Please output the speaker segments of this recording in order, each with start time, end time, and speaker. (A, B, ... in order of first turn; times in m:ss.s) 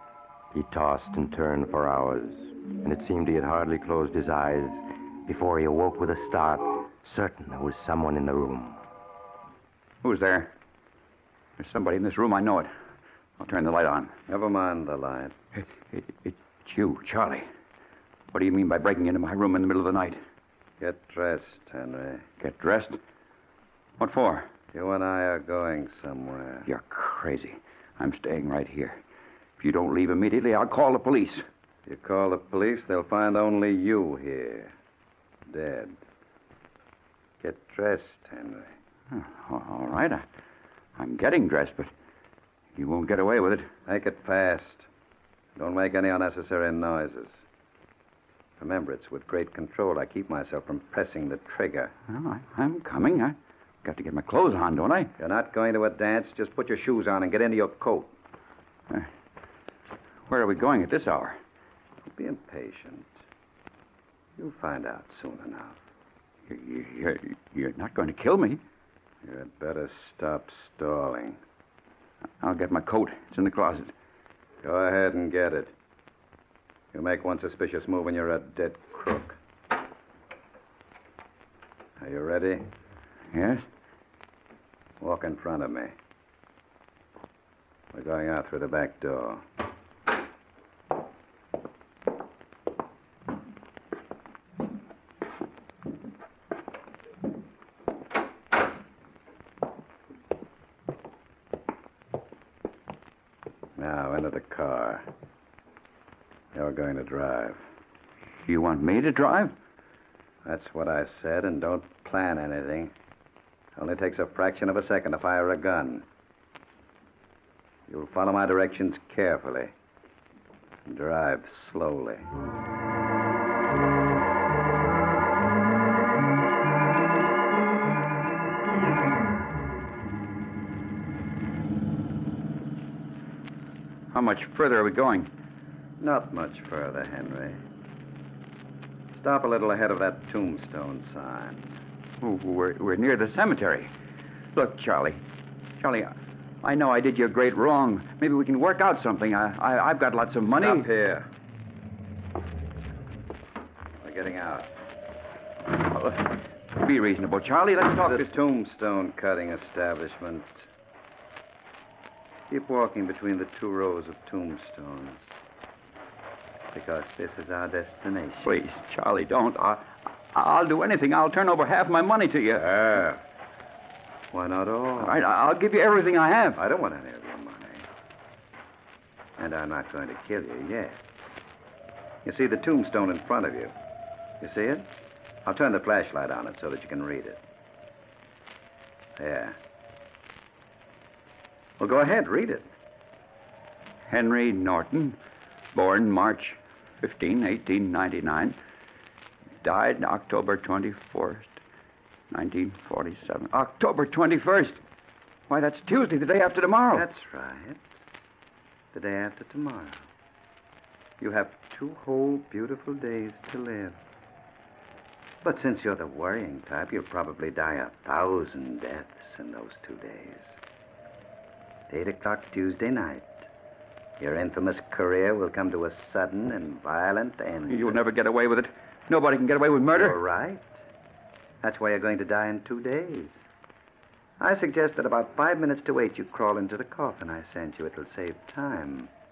0:00.5-0:08.8 A
0:10.0-0:10.5 B
0:11.6-0:12.7 B
0:13.4-0:14.1 B
0:14.3-0:15.4 C
0:15.6-0:17.5 B
0:18.3-0:20.2 B
0:20.8-0:22.3 C
0:22.4-0:23.0 B
0:24.0-0:24.5 B
0:24.7-0:26.7 C
0:26.7-0:29.0 B
0:29.6-0:31.4 B
0:31.9-0:34.7 C
0:35.5-0:36.0 C
0:37.4-0:38.7 C
0:39.1-0:40.2 B
0:41.0-0:41.9 B
0:42.8-0:43.7 B
0:43.9-0:44.9 C
0:45.6-0:47.4 C
0:48.6-0:51.9 C
0:52.1-0:55.1 B
0:55.2-0:58.1 C
1:00.3-1:01.4 B
1:02.1-1:03.2 C
1:04.4-1:05.8 C
1:06.5-1:08.6 B
1:09.2-1:11.4 C
1:12.4-1:13.9 B
1:14.6-1:15.7 C
1:16.9-1:19.4 C
1:22.0-1:22.7 C
1:23.3-1:23.6 B
1:25.0-1:26.0 C
1:27.9-1:29.4 C
1:43.8-1:45.1 C
1:46.5-1:47.6 C
1:48.4-1:49.6 B
1:50.4-1:52.9 C
1:53.8-1:56.0 C
1:57.9-1:59.7 C
2:00.9-2:02.3 C
2:14.1-2:15.3 B
2:16.0-2:17.6 C
2:19.1-2:21.8 C
2:22.2-2:23.9 B
2:24.6-2:25.2 B
2:25.8-2:26.1 B
2:26.6-2:30.9 B
2:30.5-2:31.3 C
2:34.0-2:34.7 C
2:35.7-2:38.3 B
2:37.8-2:40.7 C
2:42.5-2:45.3 C
2:46.7-2:48.5 C
2:48.4-2:52.7 B
2:52.6-2:53.2 C
2:54.3-2:55.2 C
2:55.0-2:56.6 B
2:56.6-2:57.9 C
2:59.4-3:01.0 C
3:02.2-3:03.7 C
3:04.4-3:04.9 C
3:05.4-3:07.4 C
3:09.2-3:09.6 C
3:11.8-3:12.7 C
3:14.1-3:15.2 B
3:15.7-3:18.6 B
3:19.6-3:21.6 B
3:22.3-3:24.8 B
3:25.5-3:27.1 B
3:26.9-3:28.0 C
3:28.9-3:30.1 C
3:31.2-3:34.0 C
3:35.4-3:40.6 C
3:41.9-3:43.5 C
3:44.2-3:48.0 C
3:47.7-3:50.2 B
3:49.9-3:50.8 C
3:51.6-3:53.4 C
3:54.4-3:59.1 C